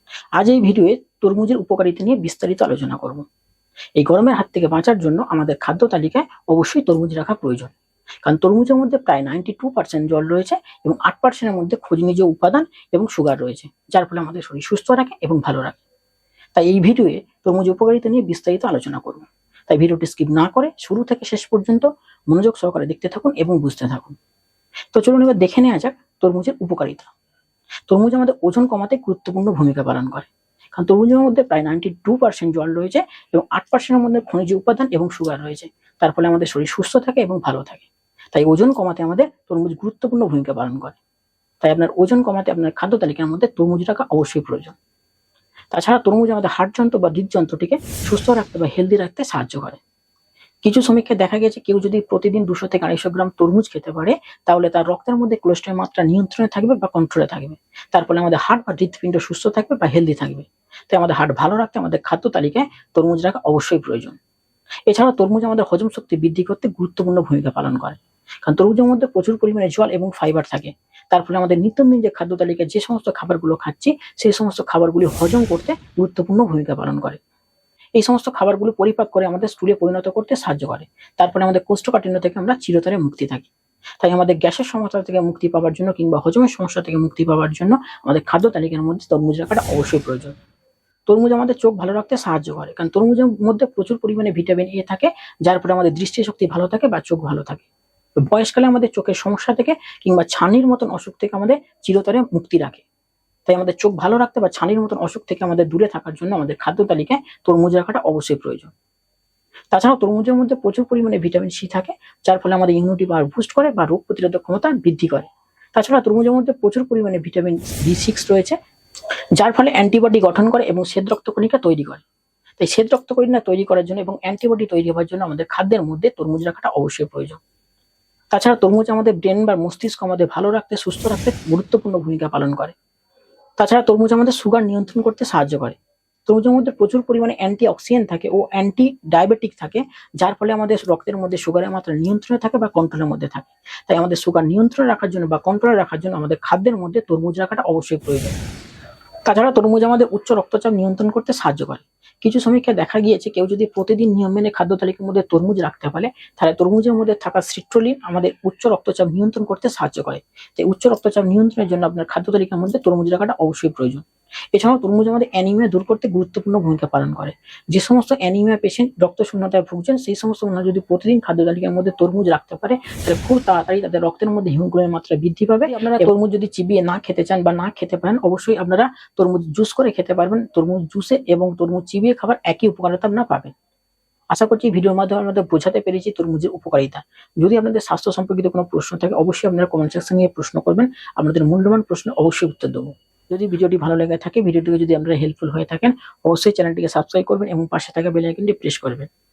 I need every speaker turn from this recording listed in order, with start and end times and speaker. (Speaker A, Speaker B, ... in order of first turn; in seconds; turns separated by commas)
Speaker A: 0.4-3.2, Speaker A: 4.0-7.7, Speaker A: 8.2-15.8, Speaker A: 16.6-24.1, Speaker A: 24.9-27.1, Speaker A: 27.9-41.0, Speaker A: 41.6-44.8, Speaker A: 45.7-49.8, Speaker A: 50.6-64.2, Speaker A: 64.9-77.2, Speaker A: 78.0-83.5, Speaker A: 84.0-90.3, Speaker A: 91.1-97.7, Speaker A: 98.2-102.8, Speaker A: 103.5-108.7, Speaker A: 109.7-118.5, Speaker A: 119.4-122.0, Speaker A: 122.6-127.4, Speaker A: 128.3-132.7, Speaker A: 133.6-148.4, Speaker A: 149.2-183.5, Speaker A: 184.3-199.1